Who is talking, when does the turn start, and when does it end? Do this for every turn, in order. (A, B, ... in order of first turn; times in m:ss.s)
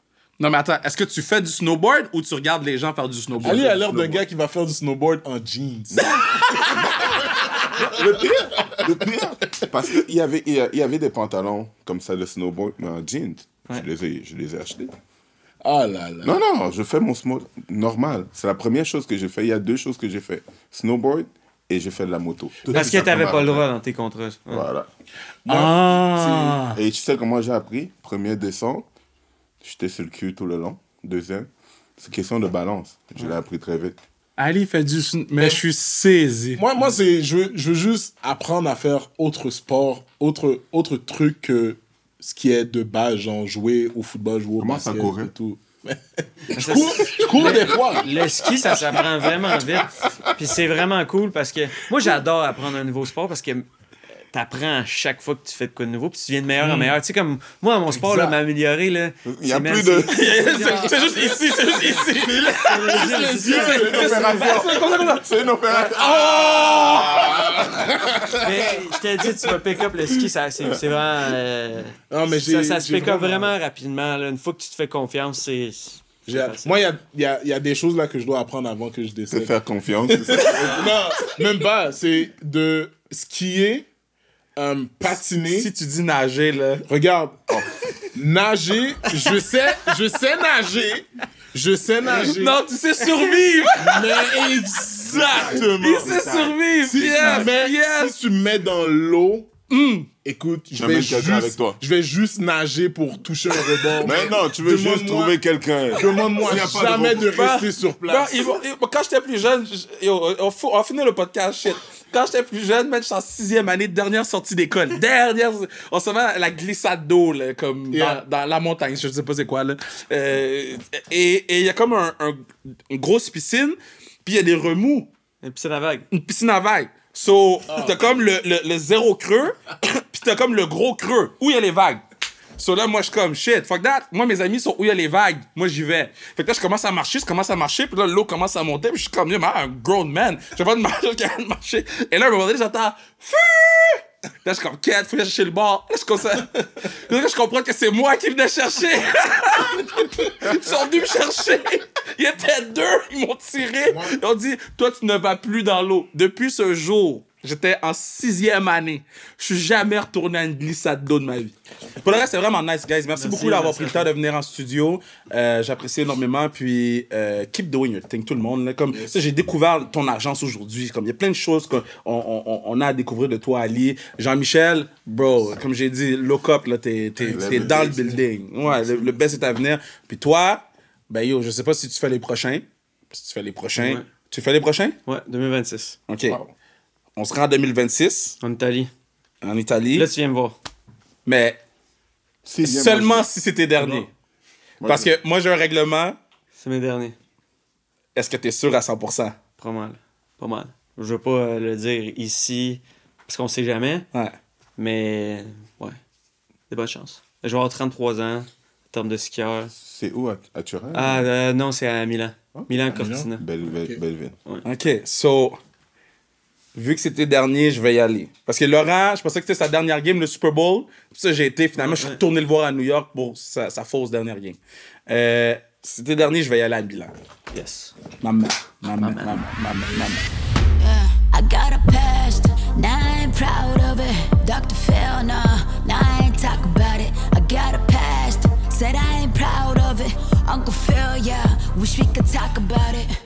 0:00.4-0:04.2 A
0:03.4-0:08.0 B
0:03.4-0:04.2 C
0:06.0-0:06.9 A
0:06.7-0:14.9 C
0:08.6-0:09.5 B
0:15.6-0:16.4 B
0:16.2-0:23.6 C
0:22.7-0:24.7 D
0:24.5-0:24.9 C
0:25.4-0:26.6 B
0:25.5-0:26.8 A
0:26.7-0:28.8 C
0:29.6-0:34.0 C
0:34.4-0:36.6 A
0:36.6-0:48.1 B
0:44.6-0:45.3 C
0:46.5-0:53.6 D
0:49.8-0:50.3 C
0:54.3-1:04.3 D
0:56.6-0:56.9 A
0:58.0-0:58.3 B
0:59.2-1:00.3 C
1:00.1-1:05.3 A
1:02.3-1:05.1 B
1:03.8-1:08.2 C
1:06.0-1:08.3 B
1:06.5-1:07.0 D
1:06.5-1:06.8 A
1:08.4-1:16.7 D
1:12.1-1:13.5 B
1:16.3-1:19.5 B
1:19.3-1:20.9 C
1:20.1-1:23.9 B
1:24.6-1:25.7 B
1:25.0-1:26.9 A
1:26.9-1:27.4 B
1:27.5-1:27.8 C
1:28.1-1:36.2 B
1:29.2-1:29.9 A
1:32.0-1:38.1 A
1:36.0-1:37.5 C
1:36.8-1:39.5 B
1:39.7-1:40.1 A
1:40.2-1:45.4 B
1:40.7-1:41.8 C
1:44.0-1:47.3 C
1:45.9-1:48.6 B
1:47.3-2:05.1 A
1:57.9-1:58.2 B
2:05.4-2:06.1 D
2:06.1-2:12.0 A
2:07.7-2:08.1 B
2:12.6-3:05.0 A
2:33.8-2:34.2 B
2:43.2-2:44.1 D
2:48.9-2:49.2 B
2:57.2-2:58.2 C
2:57.2-2:58.1 B
2:58.7-2:59.1 B
3:03.8-3:04.0 D
3:05.0-3:06.0 D
3:06.1-3:06.4 A
3:06.3-3:06.5 C
3:07.2-3:08.4 A
3:08.4-3:08.9 D
3:09.4-3:10.1 A
3:09.9-3:10.6 D
3:11.2-3:11.6 A
3:12.4-3:13.3 C
3:12.6-3:14.1 A
3:13.8-3:14.1 C
3:14.8-3:15.1 C
3:14.8-3:16.2 A
3:16.6-3:17.2 D
3:18.1-3:19.4 A
3:19.6-3:24.1 D
3:24.8-3:26.0 D
3:26.7-3:29.7 D
3:29.7-3:31.3 C
3:30.9-3:33.4 D
3:32.9-3:33.3 B
3:33.4-3:34.4 C
3:34.6-3:35.6 A
3:36.7-3:47.2 A
3:41.8-3:42.2 D
3:47.5-3:47.9 D
3:48.2-3:50.3 A
3:49.0-3:49.5 D
3:50.8-4:03.1 E